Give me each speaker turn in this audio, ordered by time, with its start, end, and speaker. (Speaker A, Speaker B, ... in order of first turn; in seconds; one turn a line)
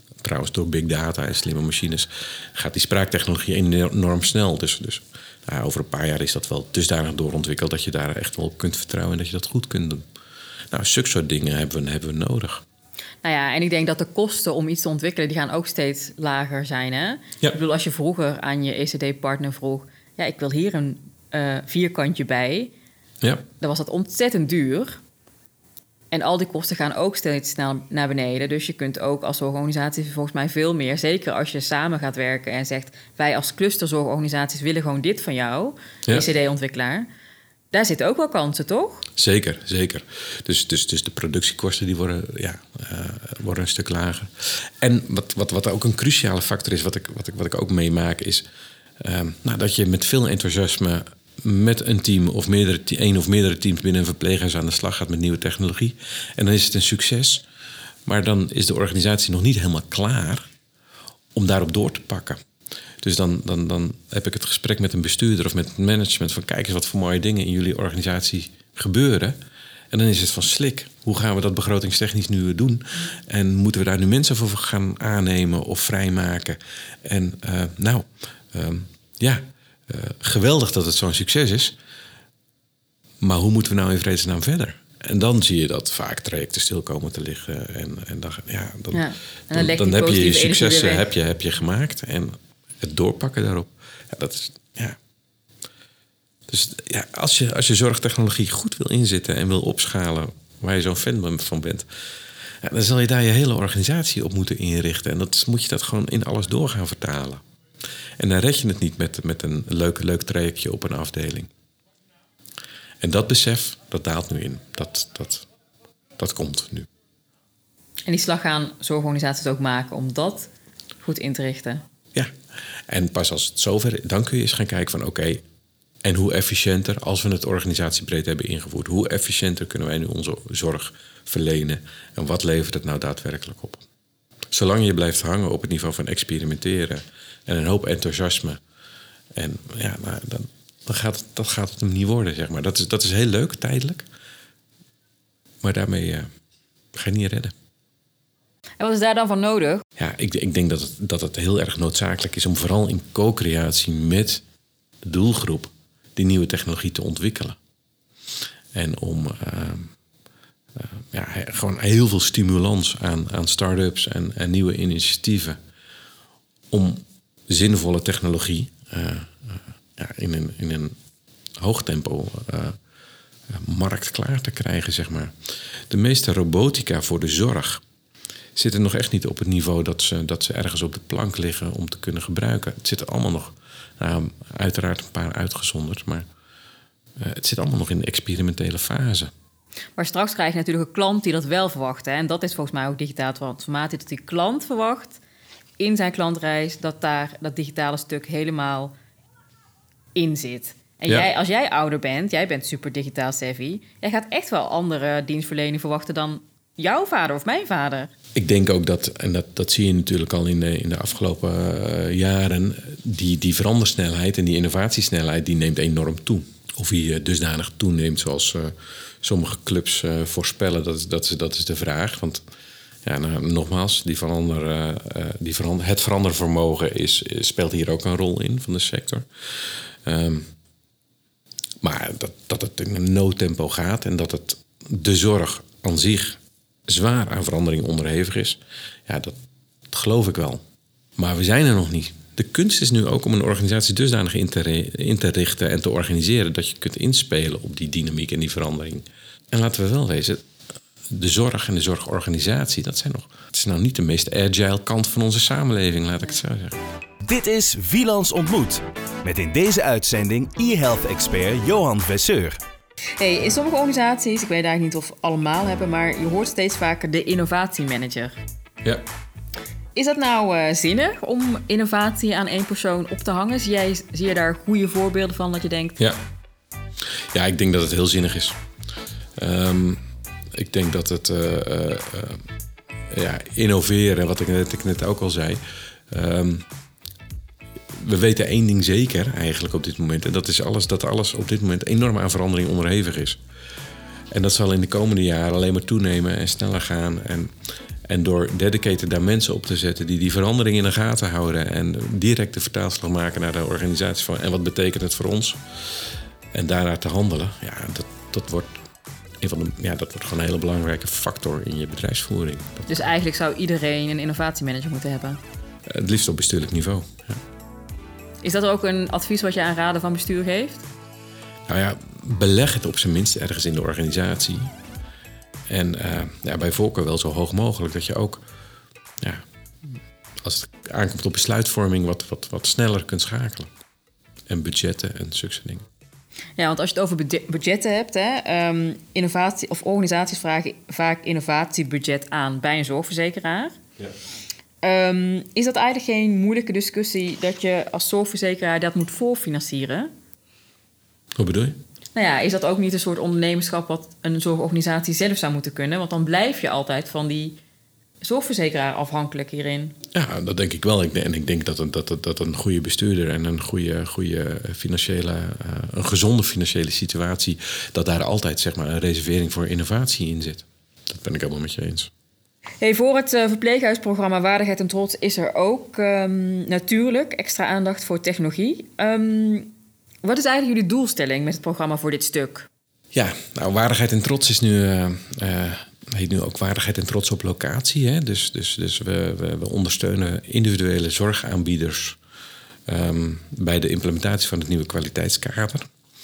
Speaker A: 0.2-10.0
Speaker A: 10.7-12.6
Speaker B: 13.2-22.7
Speaker B: 23.6-25.0
Speaker B: 26.1-37.1
Speaker B: 37.7-39.0
Speaker A: 39.2-48.4
Speaker A: 49.0-57.4
Speaker A: 58.0-60.5
Speaker A: 61.3-62.4
Speaker A: 63.0-69.4
Speaker A: 69.9-81.7
Speaker A: 83.2-95.0
Speaker B: 88.9-91.0
Speaker A: 96.5-101.8
Speaker A: 102.6-107.4
Speaker A: 108.2-111.5
Speaker A: 113.0-115.5
Speaker A: 116.2-116.9
Speaker B: 118.1-120.5
Speaker B: 121.0-121.8
Speaker A: 122.9-125.4
Speaker A: 126.0-133.8
Speaker A: 134.5-138.6
Speaker A: 139.3-144.0
Speaker A: 145.6-146.3
Speaker A: 146.9-147.5
Speaker B: 148.8-149.8
Speaker A: 150.0-154.4
Speaker A: 155.0-157.6
Speaker A: 158.7-159.9
Speaker A: 160.8-165.6
Speaker A: 166.7-170.9
Speaker A: 171.6-172.8
Speaker A: 173.5-175.3
Speaker A: 175.9-177.8
Speaker A: 178.6-186.2
Speaker A: 187.2-189.3
Speaker B: 190.0-195.2
Speaker B: 195.8-198.9
Speaker B: 200.1-208.1
Speaker A: 208.3-222.4
Speaker A: 223.0-230.5
Speaker A: 231.8-239.3
Speaker A: 239.9-240.6
Speaker A: 241.2-250.4
Speaker A: 251.1-256.8
Speaker C: 257.2-262.6
Speaker B: 263.2-268.4
Speaker B: 269.9-276.0
Speaker A: 277.3-278.6
Speaker A: 279.4-280.0
Speaker A: 280.5-282.4
Speaker A: 283.1-286.6
Speaker A: 287.9-293.4
Speaker A: 294.3-297.5
Speaker A: 298.1-305.6
Speaker A: 306.5-308.8
Speaker A: 309.4-313.0
Speaker B: 312.9-315.4
Speaker A: 315.9-317.4
Speaker B: 318.4-320.8
Speaker A: 321.7-324.7
Speaker A: 325.7-328.4
Speaker A: 330.4-333.7
Speaker A: 334.5-335.8
Speaker B: 336.6-343.8
Speaker B: 344.8-350.1
Speaker A: 351.4-351.8
Speaker B: 352.1-357.6
Speaker B: 358.2-359.9
Speaker A: 360.1-372.1
Speaker B: 372.8-379.7
Speaker B: 380.2-382.7
Speaker A: 383.1-392.2
Speaker A: 392.9-395.9